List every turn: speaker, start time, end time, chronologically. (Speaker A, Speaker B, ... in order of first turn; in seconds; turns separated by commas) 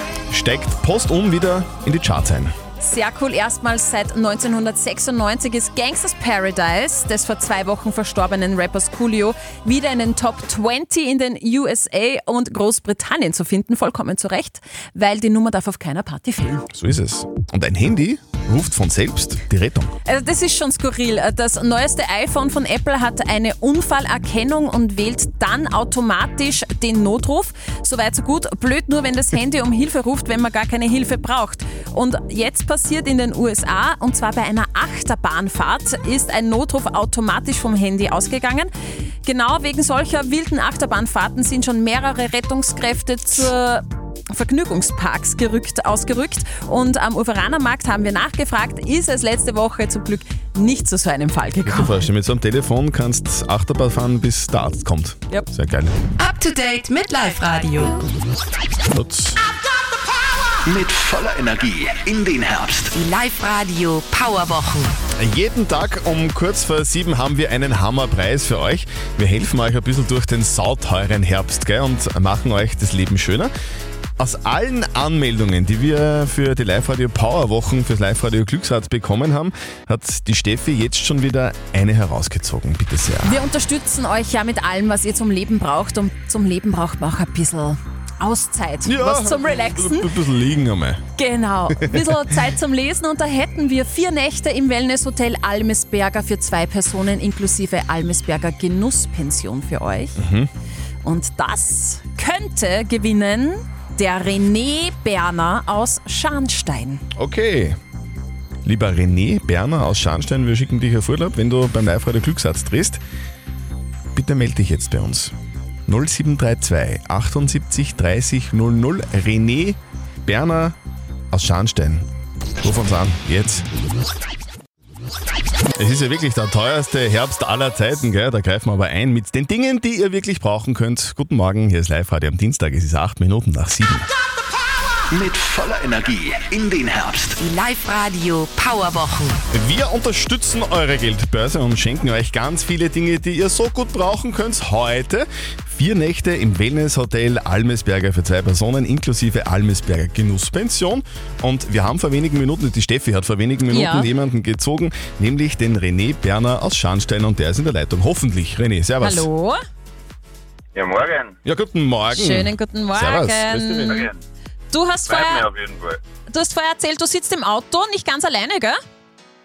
Speaker A: 0.3-2.5, Speaker B: 2.8-16.6, Speaker A: 16.7-19.9, Speaker B: 20.1-38.7, Speaker B: 39.2-52.0, Speaker A: 51.6-56.0, Speaker C: 56.2-58.1, Speaker A: 58.9-59.4, Speaker D: 60.6-63.0, Speaker C: 63.0-64.9, Speaker A: 65.2-73.5, Speaker A: 74.2-83.4, Speaker B: 83.2-90.1, Speaker A: 88.8-91.0, Speaker B: 91.2-100.2, Speaker A: 91.8-92.1, Speaker A: 100.2-100.5, Speaker B: 101.0-107.0, Speaker A: 107.2-107.8, Speaker A: 108.7-113.0, Speaker A: 114.1-115.3, Speaker A: 115.9-120.8, Speaker A: 121.3-122.1, Speaker A: 122.6-123.7, Speaker A: 125.8-134.1, Speaker D: 135.1-137.4, Speaker C: 137.4-139.4, Speaker A: 139.5-159.3, Speaker B: 153.7-154.1, Speaker B: 159.0-159.6, Speaker E: 160.7-161.4, Speaker A: 161.4-164.1, Speaker B: 162.1-164.1, Speaker E: 163.9-164.2, Speaker B: 164.7-165.5, Speaker E: 165.0-166.0, Speaker B: 166.3-168.8